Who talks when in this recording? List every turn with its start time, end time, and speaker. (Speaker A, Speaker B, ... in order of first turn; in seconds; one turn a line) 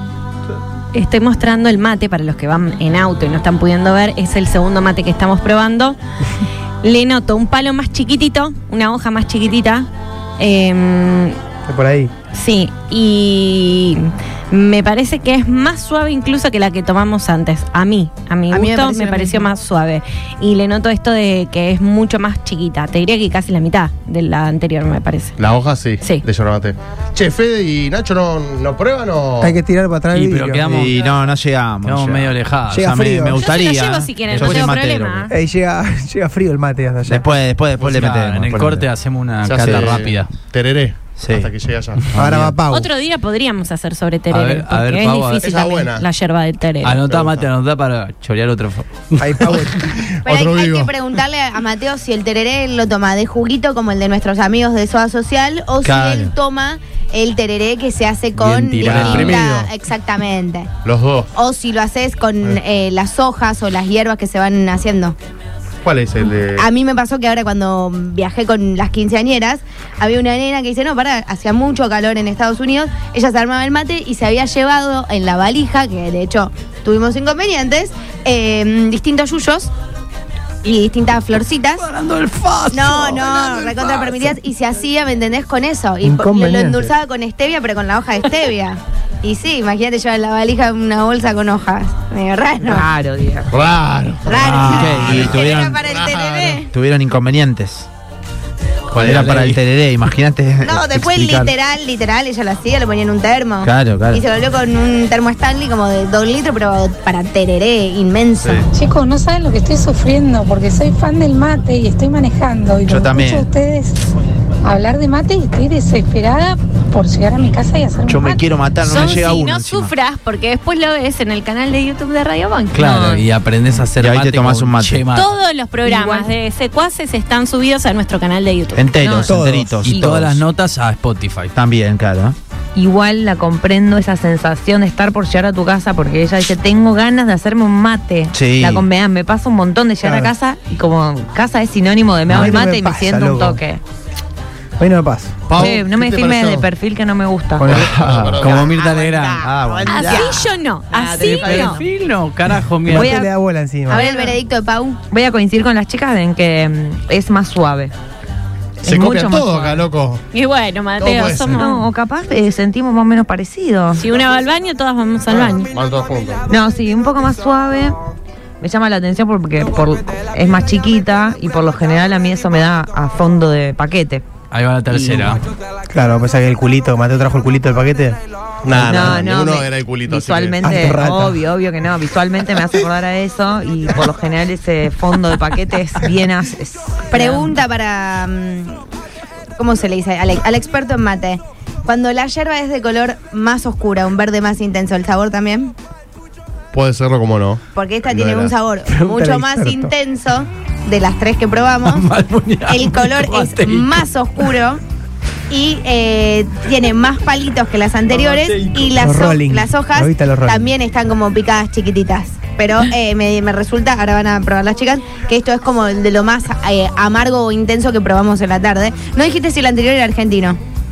Speaker A: 0.9-6.0
Speaker A: 6.8-9.9
Speaker A: 10.4-11.4
Speaker B: 11.7-12.1
Speaker A: 12.3-25.3
Speaker C: 18.5-19.4
Speaker D: 25.4-29.6
Speaker B: 29.4-30.7
Speaker E: 30.1-31.1
Speaker F: 30.7-35.3
Speaker E: 31.8-32.9
Speaker B: 32.7-33.4
Speaker A: 33.4-35.3
Speaker E: 34.3-34.7
Speaker B: 35.3-37.3
Speaker F: 37.1-38.9
Speaker E: 37.8-40.3
Speaker D: 39.4-42.2
Speaker F: 39.6-40.0
Speaker F: 41.2-41.5
Speaker B: 42.1-42.9
Speaker F: 42.2-42.5
Speaker A: 42.7-47.0
Speaker E: 44.3-45.4
Speaker D: 45.4-46.0
Speaker E: 46.8-49.8
Speaker D: 47.0-47.5
Speaker B: 49.2-49.8
Speaker D: 49.8-50.9
Speaker C: 50.2-60.7
Speaker F: 55.8-56.3
Speaker E: 58.3-59.4
Speaker D: 58.8-59.7
Speaker D: 60.8-61.3
Speaker C: 61.3-65.1
Speaker D: 65.8-66.7
Speaker C: 66.5-79.7
Speaker C: 80.6-81.8
Speaker E: 81.8-84.2
Speaker C: 82.7-92.9
Speaker B: 86.0-86.9
Speaker G: 92.6-93.5
Speaker D: 93.5-96.7
Speaker C: 94.2-96.7
Speaker E: 94.4-95.2
Speaker F: 94.5-95.8
Speaker F: 96.7-97.9
Speaker F: 98.9-101.5
Speaker E: 99.0-99.5
Speaker C: 100.6-108.6
Speaker F: 103.6-104.2
Speaker D: 108.4-108.7
Speaker H: 108.7-114.1
Speaker F: 112.9-113.5
Speaker H: 114.6-118.5
Speaker F: 118.1-119.9
Speaker A: 118.8-122.9
Speaker E: 122.7-125.3
Speaker G: 122.8-123.2
Speaker F: 124.0-125.0
Speaker A: 125.1-128.9
Speaker G: 125.8-126.3
Speaker F: 128.7-130.4
Speaker G: 129.0-129.3
Speaker B: 129.2-129.8
Speaker E: 129.8-131.5
Speaker G: 129.9-130.2
Speaker F: 131.5-132.3
Speaker G: 132.7-143.8
Speaker F: 138.3-138.8
Speaker B: 140.0-140.3
Speaker B: 142.3-143.6
Speaker B: 144.8-145.7
Speaker D: 145.5-146.7
Speaker G: 145.5-147.7
Speaker B: 147.6-148.0
Speaker D: 147.7-148.9
Speaker E: 147.7-149.4
Speaker C: 148.6-151.7
Speaker F: 149.4-150.3
Speaker A: 149.9-151.8
Speaker E: 151.2-153.3
Speaker B: 152.9-154.1
Speaker C: 153.9-155.0
Speaker G: 153.9-154.3
Speaker G: 155.1-157.9
Speaker G: 158.8-159.9
Speaker D: 158.8-160.2
Speaker A: 160.3-161.9
Speaker D: 161.0-161.6
Speaker G: 161.5-164.1
Speaker A: 164.0-165.7
Speaker D: 165.3-166.4
Speaker G: 166.5-168.0
Speaker G: 168.6-174.2
Speaker E: 174.5-175.4
Speaker G: 174.9-175.4
Speaker B: 175.9-178.2
Speaker D: 178.6-181.0
Speaker B: 178.7-179.2
Speaker G: 178.7-187.6
Speaker B: 180.6-181.4
Speaker C: 187.1-188.8
Speaker C: 189.6-195.7
Speaker D: 196.7-198.5
Speaker C: 197.7-202.0
Speaker B: 198.9-199.9
Speaker E: 201.8-204.6
Speaker C: 202.7-204.8
Speaker C: 205.5-220.6
Speaker E: 208.1-208.9
Speaker B: 208.9-210.7